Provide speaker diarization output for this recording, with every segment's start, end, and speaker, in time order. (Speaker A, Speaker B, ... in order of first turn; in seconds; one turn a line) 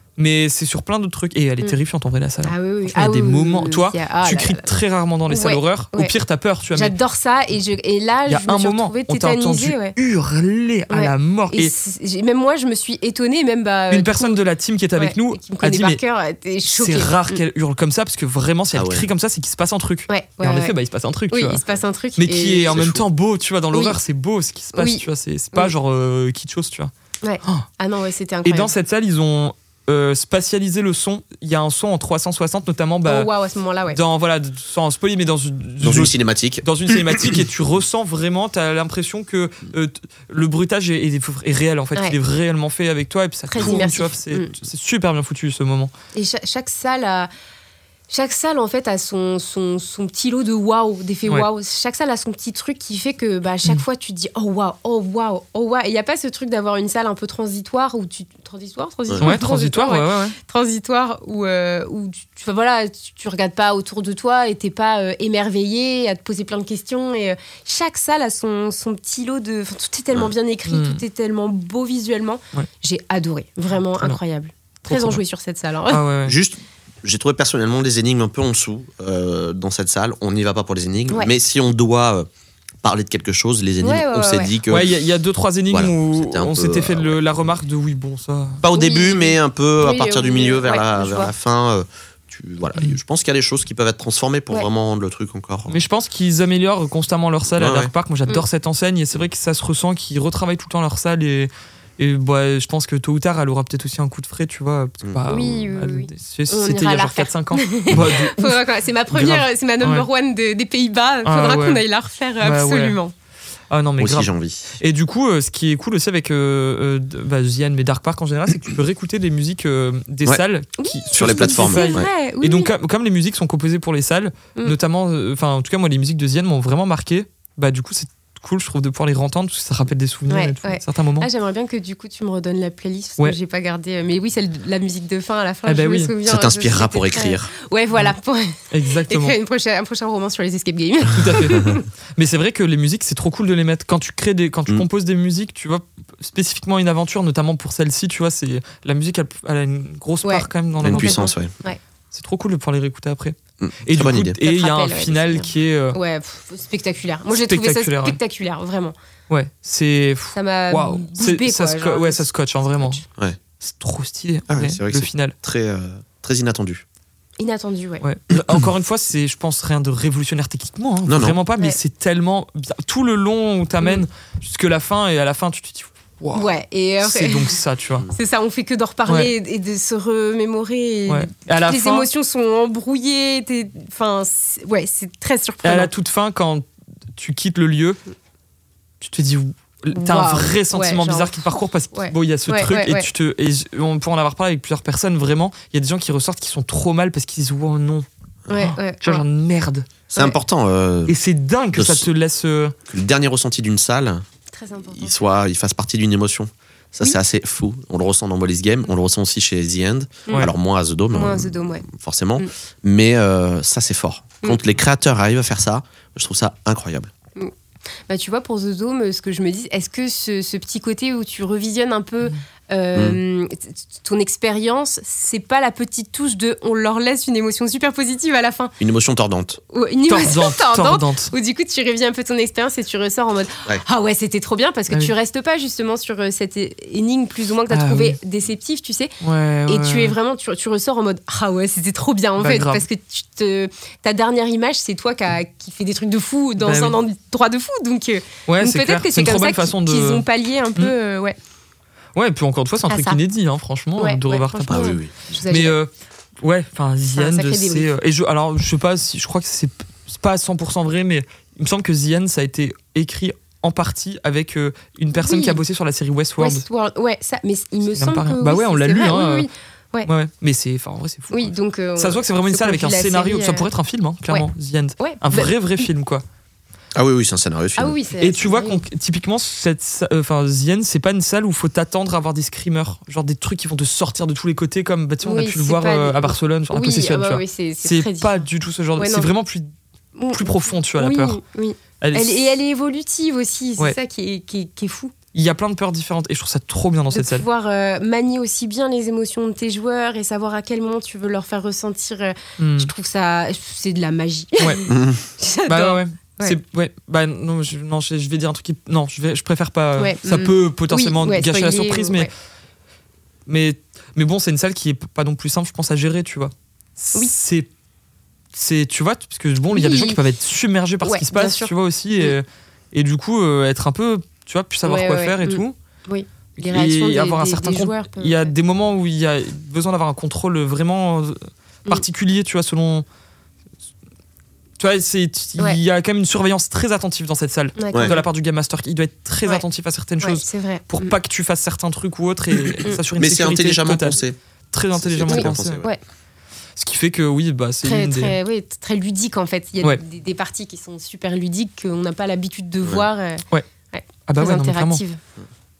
Speaker A: 0.2-6.9
Speaker B: 2.4-4.7
Speaker B: 5.3-6.1
Speaker B: 6.7-9.9
Speaker A: 8.3-11.7
Speaker B: 10.9-14.4
Speaker A: 13.9-16.0
Speaker B: 15.0-17.4
Speaker A: 16.7-21.6
Speaker C: 18.7-19.1
Speaker B: 20.1-20.7
Speaker B: 21.3-22.8
Speaker A: 22.2-26.9
Speaker C: 22.7-23.0
Speaker B: 23.7-24.0
Speaker B: 24.7-25.0
Speaker B: 27.2-28.7
Speaker A: 28.4-33.3
Speaker B: 33.0-34.0
Speaker A: 33.9-45.9
Speaker C: 35.8-36.6
Speaker B: 43.5-44.5
Speaker B: 46.1-47.3
Speaker B: 48.1-76.0
Speaker A: 59.2-60.4
Speaker A: 70.7-71.0
Speaker A: 74.8-75.2
Speaker A: 75.9-76.3
Speaker C: 76.2-82.3
Speaker C: 82.8-84.9
Speaker B: 83.8-84.5
Speaker A: 84.7-88.6
Speaker C: 85.7-87.2
Speaker C: 88.6-95.8
Speaker B: 88.7-91.3
Speaker A: 95.7-110.1
Speaker C: 97.5-97.9
Speaker B: 105.3-113.1
Speaker A: 111.2-111.8
Speaker A: 112.4-113.0
Speaker A: 113.7-131.3
Speaker C: 114.0-114.7
Speaker B: 120.8-122.7
Speaker C: 121.1-122.1
Speaker B: 130.3-141.8
Speaker A: 135.7-136.1
Speaker C: 136.2-137.5
Speaker A: 138.7-139.3
Speaker A: 141.1-151.3
Speaker B: 150.2-151.8
Speaker C: 150.8-151.5
Speaker A: 152.1-156.0
Speaker C: 153.6-154.3
Speaker B: 154.4-158.9
Speaker A: 157.4-158.2
Speaker A: 159.3-163.0
Speaker B: 160.3-163.1
Speaker A: 163.6-165.3
Speaker C: 164.5-166.8
Speaker B: 167.4-168.0
Speaker A: 168.0-176.5
Speaker C: 168.3-168.6
Speaker C: 171.1-171.3
Speaker B: 176.3-177.6
Speaker A: 177.0-178.1
Speaker B: 178.1-185.9
Speaker A: 179.1-179.3
Speaker A: 181.1-182.1
Speaker A: 185.6-188.0
Speaker A: 189.0-198.1
Speaker B: 189.9-193.1
Speaker B: 198.5-199.2
Speaker A: 198.6-199.9
Speaker C: 200.1-201.1
Speaker A: 201.1-202.7
Speaker C: 201.7-202.1
Speaker C: 202.9-204.2
Speaker B: 204.5-205.3
Speaker C: 204.9-217.1
Speaker B: 211.1-211.8
Speaker B: 218.1-228.7
Speaker C: 228.8-229.6
Speaker B: 229.7-239.1
Speaker A: 230.1-231.3
Speaker A: 237.7-238.2
Speaker A: 239.2-240.1
Speaker B: 239.7-251.4
Speaker A: 242.4-242.8
Speaker A: 246.6-246.9
Speaker A: 248.5-250.2
Speaker A: 252.1-254.8
Speaker B: 252.9-253.2
Speaker B: 254.0-255.8
Speaker C: 254.7-255.1
Speaker A: 255.5-266.6
Speaker B: 257.1-257.9
Speaker B: 265.1-265.6
Speaker B: 266.4-270.1
Speaker A: 267.9-269.5
Speaker A: 270.1-276.2
Speaker B: 271.3-273.7
Speaker B: 275.0-275.9
Speaker C: 276.9-278.0
Speaker B: 277.8-278.8
Speaker A: 278.2-289.7
Speaker B: 285.2-288.4
Speaker B: 289.0-289.3
Speaker B: 290.2-295.1
Speaker A: 290.3-291.4
Speaker A: 292.0-292.4
Speaker A: 295.3-297.4
Speaker B: 297.1-306.6
Speaker A: 302.6-302.9
Speaker C: 304.9-305.2
Speaker A: 305.7-312.3
Speaker B: 310.0-312.3
Speaker A: 313.5-317.7
Speaker A: 318.5-325.7
Speaker B: 319.7-320.2
Speaker B: 321.0-322.4
Speaker B: 324.8-328.5
Speaker A: 326.6-333.0
Speaker A: 334.8-344.2
Speaker B: 337.8-338.2
Speaker B: 340.2-341.1
Speaker C: 343.1-344.4
Speaker A: 344.7-345.8
Speaker C: 344.9-345.9
Speaker B: 345.3-346.0
Speaker A: 346.8-348.4
Speaker B: 347.8-355.2
Speaker A: 354.3-355.0